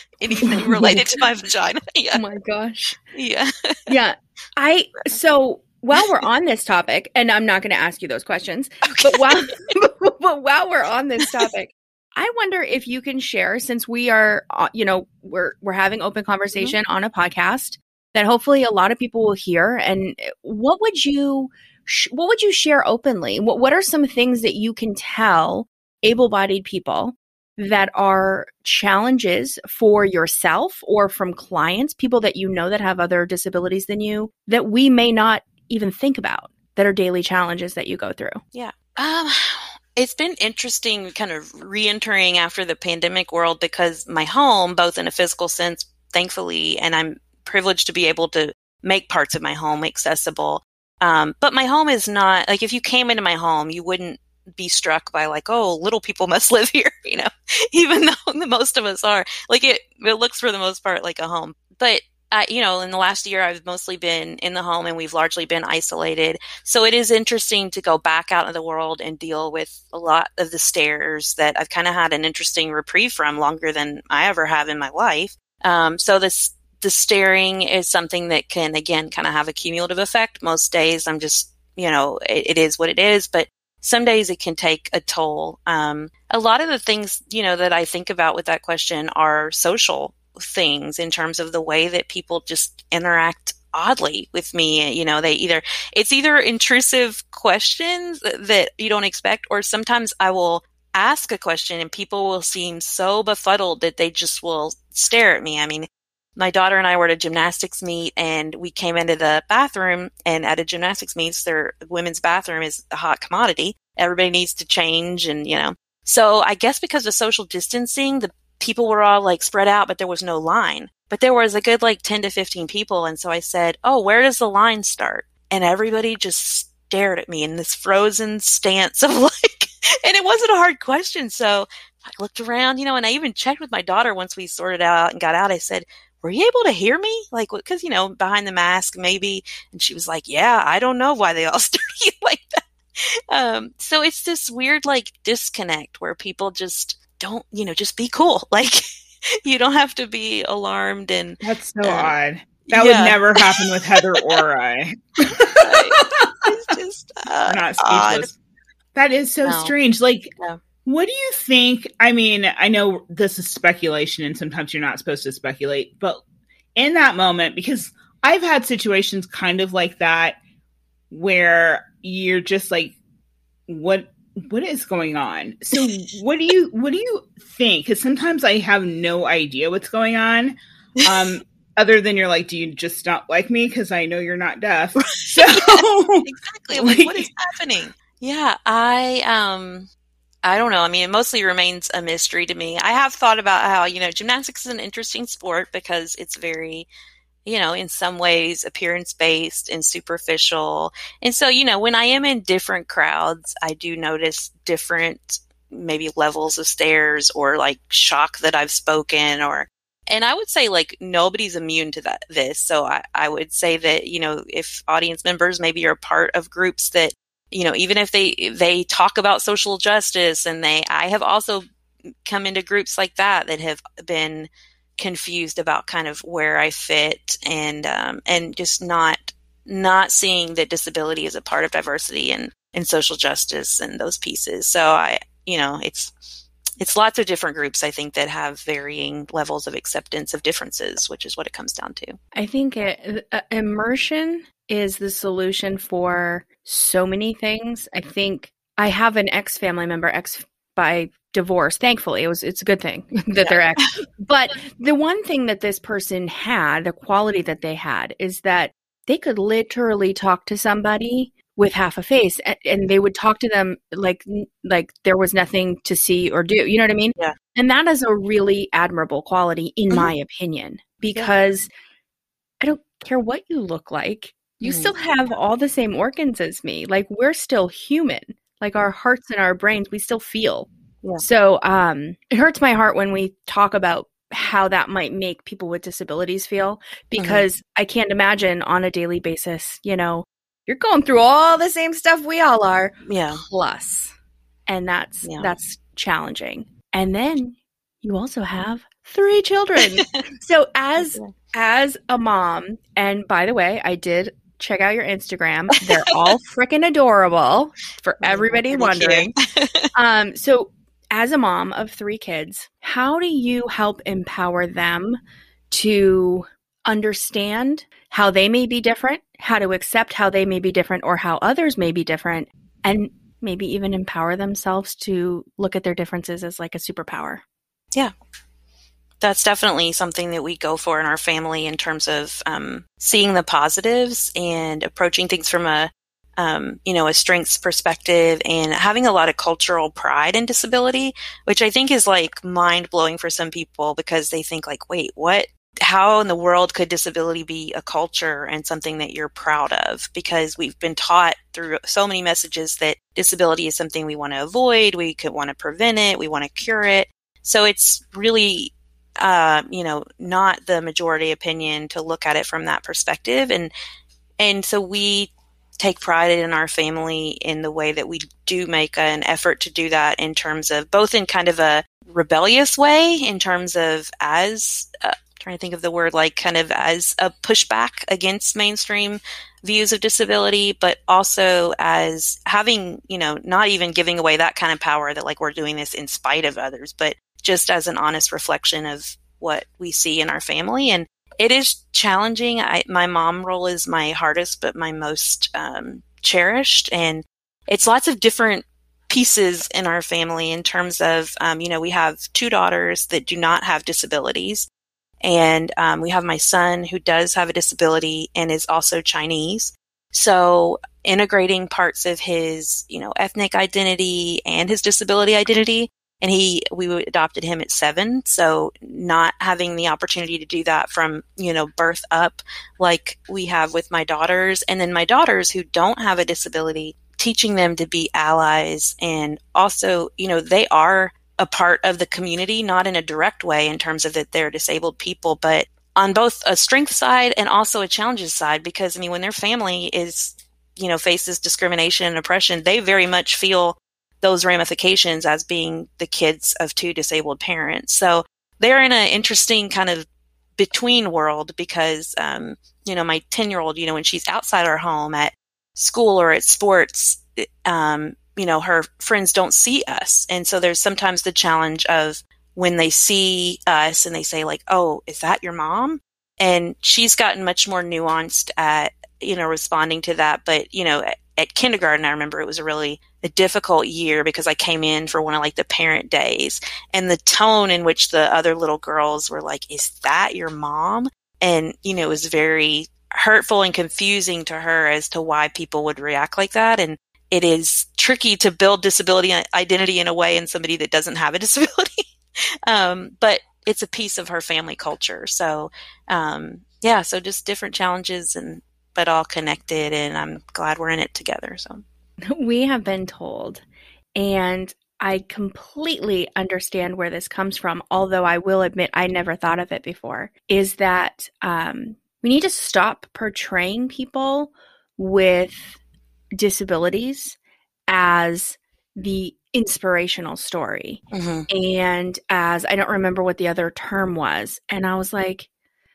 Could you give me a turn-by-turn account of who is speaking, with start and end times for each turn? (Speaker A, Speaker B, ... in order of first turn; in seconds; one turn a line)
Speaker A: 0.2-2.2
Speaker B: 2.1-3.0
Speaker A: 3.1-3.8
Speaker B: 3.9-38.4
Speaker A: 8.8-9.6
Speaker A: 11.2-11.5
Speaker A: 38.5-148.8
Speaker A: 149.4-152.1
Speaker C: 151.4-156.5
Speaker A: 152.7-153.7
Speaker A: 155.5-158.3
Speaker C: 157.4-158.3
Speaker C: 158.9-160.3
Speaker A: 159.4-159.7
Speaker C: 160.8-166.2
Speaker C: 166.8-170.4
Speaker C: 171.1-173.0
Speaker C: 173.7-187.3
Speaker A: 185.0-189.9
Speaker A: 190.4-196.9
Speaker A: 197.4-221.6
Speaker A: 222.2-236.1
Speaker A: 236.8-242.2
Speaker B: 242.3-271.7
Speaker A: 253.4-253.9
Speaker B: 272.6-294.1
Speaker A: 274.6-274.9
Speaker A: 287.2-287.4
Speaker A: 293.1-293.4
Speaker B: 294.7-309.3
Speaker A: 295.2-295.5
Speaker A: 301.0-301.3
Speaker A: 308.2-309.9
Speaker B: 309.9-315.2
Speaker B: 315.7-327.4
Speaker A: 329.2-363.7
Speaker A: 364.4-404.7
Speaker A: 405.2-492.0
Speaker A: 492.7-501.8
Speaker B: 502.3-503.6
Speaker B: 504.1-515.8
Speaker B: 516.3-517.4
Speaker B: 517.9-525.5
Speaker A: 521.1-521.5